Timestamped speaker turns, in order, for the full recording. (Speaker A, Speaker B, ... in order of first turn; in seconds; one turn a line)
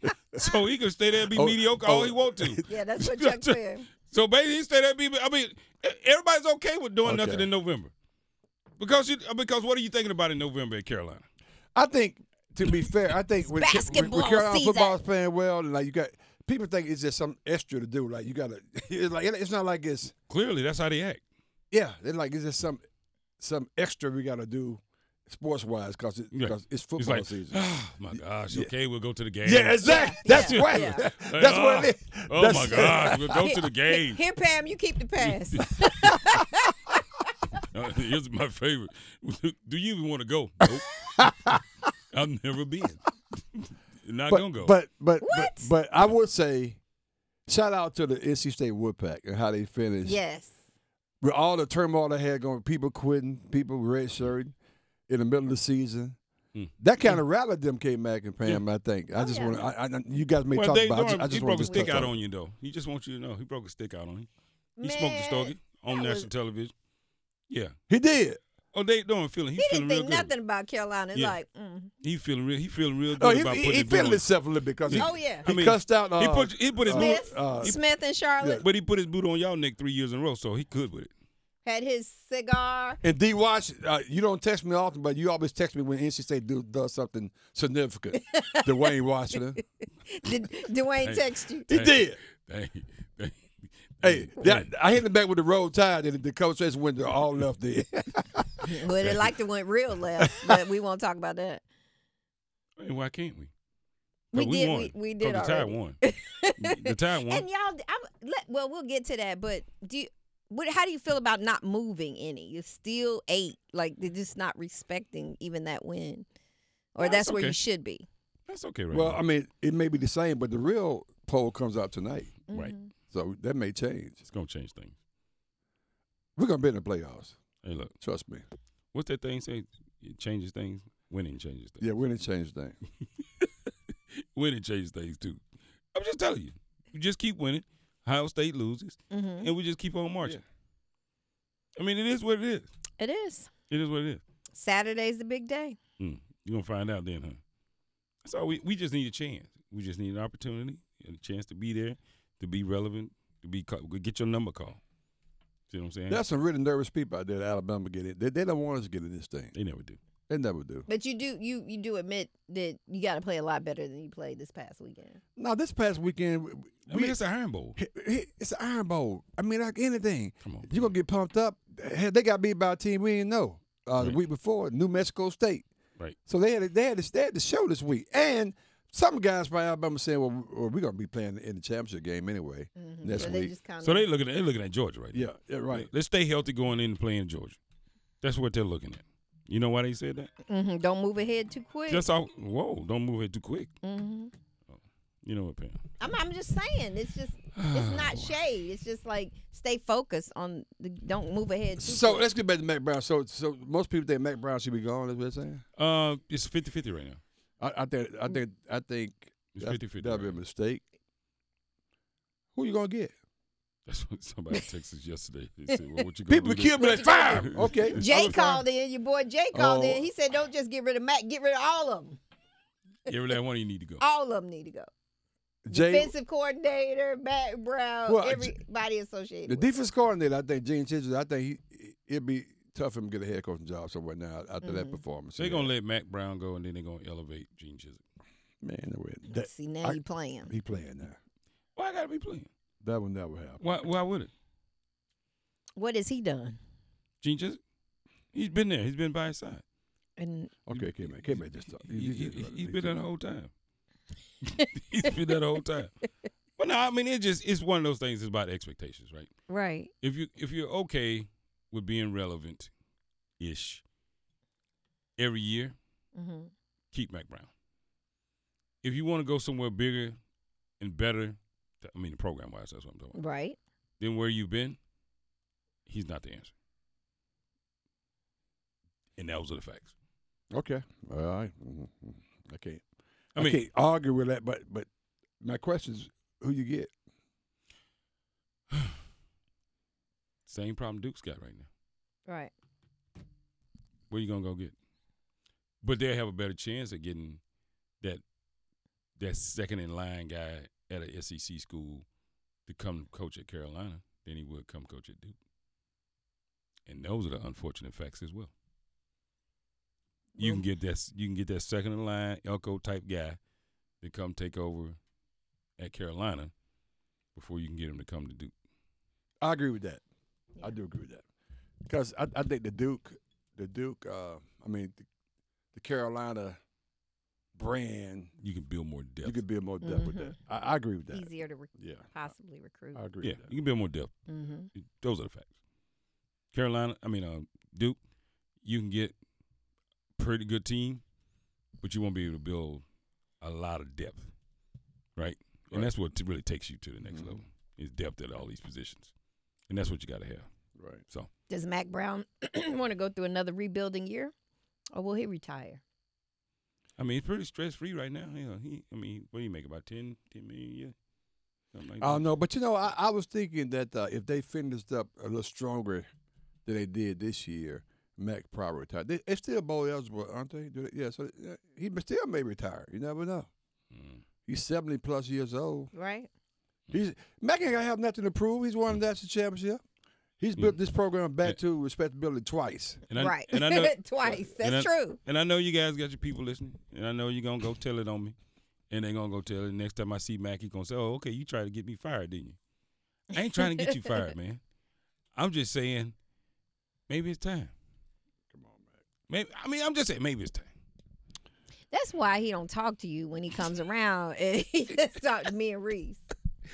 Speaker A: 0.3-7.9
Speaker B: 1.3-2.6
Speaker C: 2.6-3.9
Speaker B: 7.0-7.5
Speaker A: 8.8-11.2
Speaker B: 11.7-20.1
Speaker C: 13.4-15.0
Speaker A: 20.3-21.2
Speaker B: 21.7-22.8
Speaker B: 23.4-28.7
Speaker A: 26.3-34.2
Speaker B: 29.4-33.4
Speaker C: 29.8-31.1
Speaker C: 33.3-36.9
Speaker A: 35.2-36.1
Speaker A: 37.7-40.9
Speaker B: 40.7-41.6
Speaker A: 42.1-43.0
Speaker A: 43.5-44.7
Speaker B: 44.3-46.8
Speaker C: 45.2-45.7
Speaker B: 47.5-50.2
Speaker C: 50.0-50.5
Speaker B: 51.2-54.5
Speaker B: 55.1-56.1
Speaker A: 56.5-57.2
Speaker B: 56.8-62.1
Speaker C: 59.1-59.6
Speaker A: 60.5-64.3
Speaker C: 61.6-62.0
Speaker C: 64.8-66.3
Speaker A: 64.8-66.7
Speaker B: 67.9-68.4
Speaker A: 68.7-70.3
Speaker C: 69.6-71.9
Speaker A: 72.0-74.3
Speaker B: 73.2-77.8
Speaker A: 74.8-77.8
Speaker C: 75.0-75.5
Speaker C: 76.9-78.6
Speaker B: 78.4-78.6
Speaker A: 78.6-81.1
Speaker C: 81.6-83.0
Speaker B: 83.0-89.6
Speaker C: 88.2-88.9
Speaker C: 90.1-91.7
Speaker A: 91.0-93.4
Speaker B: 91.7-92.2
Speaker A: 94.0-94.7
Speaker B: 94.0-99.2
Speaker C: 98.6-101.6
Speaker B: 100.2-100.6
Speaker A: 102.8-103.5
Speaker C: 104.3-116.2
Speaker A: 104.3-106.0
Speaker A: 106.5-107.5
Speaker C: 116.9-118.0
Speaker A: 117.0-117.6
Speaker A: 118.5-119.2
Speaker B: 118.9-122.4
Speaker C: 122.5-122.9
Speaker B: 123.1-124.2
Speaker A: 124.2-125.0
Speaker B: 126.3-127.4
Speaker A: 127.6-127.9
Speaker B: 128.0-128.4
Speaker A: 128.9-131.9
Speaker B: 131.8-132.8
Speaker A: 133.2-133.5
Speaker A: 134.1-135.4
Speaker A: 135.9-140.4
Speaker C: 139.1-139.5
Speaker A: 141.8-142.7
Speaker C: 143.0-143.5
Speaker A: 143.7-144.2
Speaker C: 144.5-145.8
Speaker A: 146.0-147.4
Speaker A: 148.2-154.8
Speaker A: 155.7-156.2
Speaker B: 156.1-159.5
Speaker A: 159.5-160.0
Speaker B: 160.3-160.9
Speaker C: 160.9-165.2
Speaker B: 165.3-167.2
Speaker A: 166.9-167.8
Speaker B: 167.8-175.7
Speaker A: 170.4-170.9
Speaker B: 176.2-183.5
Speaker C: 182.8-184.1
Speaker A: 183.1-187.6
Speaker B: 185.1-185.9
Speaker A: 188.2-190.3
Speaker C: 190.5-192.0
Speaker A: 191.9-193.7
Speaker C: 193.8-194.3
Speaker A: 194.7-195.8
Speaker C: 196.0-202.3
Speaker A: 197.6-198.3
Speaker B: 201.8-205.6
Speaker A: 205.8-207.2
Speaker B: 207.6-210.8
Speaker A: 209.5-210.4
Speaker B: 212.5-213.1
Speaker A: 213.9-218.6
Speaker B: 216.3-218.4
Speaker C: 216.8-222.2
Speaker B: 219.5-220.1
Speaker A: 223.1-224.0
Speaker C: 224.0-224.9
Speaker B: 225.7-226.1
Speaker C: 225.7-229.7
Speaker B: 228.1-228.5
Speaker B: 229.4-235.7
Speaker C: 234.6-235.0
Speaker A: 235.3-238.0
Speaker B: 238.6-241.2
Speaker C: 239.3-240.5
Speaker A: 241.8-242.5
Speaker B: 242.8-243.6
Speaker A: 243.6-244.3
Speaker C: 245.8-246.6
Speaker A: 247.2-247.6
Speaker A: 248.3-249.6
Speaker C: 250.2-250.5
Speaker B: 250.7-253.0
Speaker A: 250.7-253.5
Speaker A: 254.4-255.9
Speaker A: 256.6-259.3
Speaker C: 259.5-259.9
Speaker A: 260.0-262.7
Speaker A: 263.4-263.8
Speaker A: 265.2-265.8
Speaker C: 266.1-266.5
Speaker A: 266.9-267.5
Speaker A: 268.8-270.2
Speaker A: 270.8-273.2
Speaker C: 273.1-273.6
Speaker A: 274.0-274.8
Speaker A: 275.9-276.5
Speaker A: 279.2-279.9
Speaker B: 280.5-282.8
Speaker A: 283.3-283.6
Speaker B: 283.4-284.9
Speaker B: 285.4-286.9
Speaker A: 290.4-291.7
Speaker C: 292.3-292.5
Speaker A: 294.1-294.7
Speaker A: 295.8-297.4
Speaker A: 299.2-302.0
Speaker A: 302.7-305.4
Speaker A: 306.9-308.5
Speaker B: 310.4-310.6
Speaker A: 310.4-313.4
Speaker A: 314.0-315.0
Speaker A: 315.8-316.5
Speaker A: 317.3-318.5
Speaker B: 319.4-320.0
Speaker B: 320.6-321.2
Speaker B: 321.9-325.0
Speaker B: 325.7-326.6
Speaker B: 327.5-328.3
Speaker A: 328.4-329.4
Speaker B: 329.2-332.1
Speaker C: 329.8-330.4
Speaker C: 331.1-333.0
Speaker B: 332.9-333.4
Speaker A: 333.2-334.1
Speaker C: 334.3-334.7
Speaker A: 334.8-335.5
Speaker A: 336.5-338.0
Speaker A: 338.6-339.1
Speaker A: 340.2-341.0
Speaker A: 341.8-342.8
Speaker A: 343.4-344.3
Speaker A: 345.2-349.1
Speaker B: 347.1-347.4
Speaker A: 349.7-350.5
Speaker B: 350.8-351.0
Speaker C: 351.5-354.3
Speaker C: 354.9-355.8
Speaker A: 357.0-360.9
Speaker A: 361.7-362.3
Speaker B: 362.0-366.1
Speaker B: 366.6-373.5
Speaker A: 373.9-374.2
Speaker B: 374.4-375.9
Speaker C: 375.9-376.3
Speaker B: 376.9-379.8
Speaker B: 380.4-383.0
Speaker A: 383.1-388.4
Speaker C: 383.1-385.2
Speaker A: 388.9-392.6
Speaker A: 393.3-394.6
Speaker A: 395.3-396.1
Speaker A: 397.1-397.7
Speaker B: 398.5-399.0
Speaker A: 399.3-400.7
Speaker C: 401.9-406.2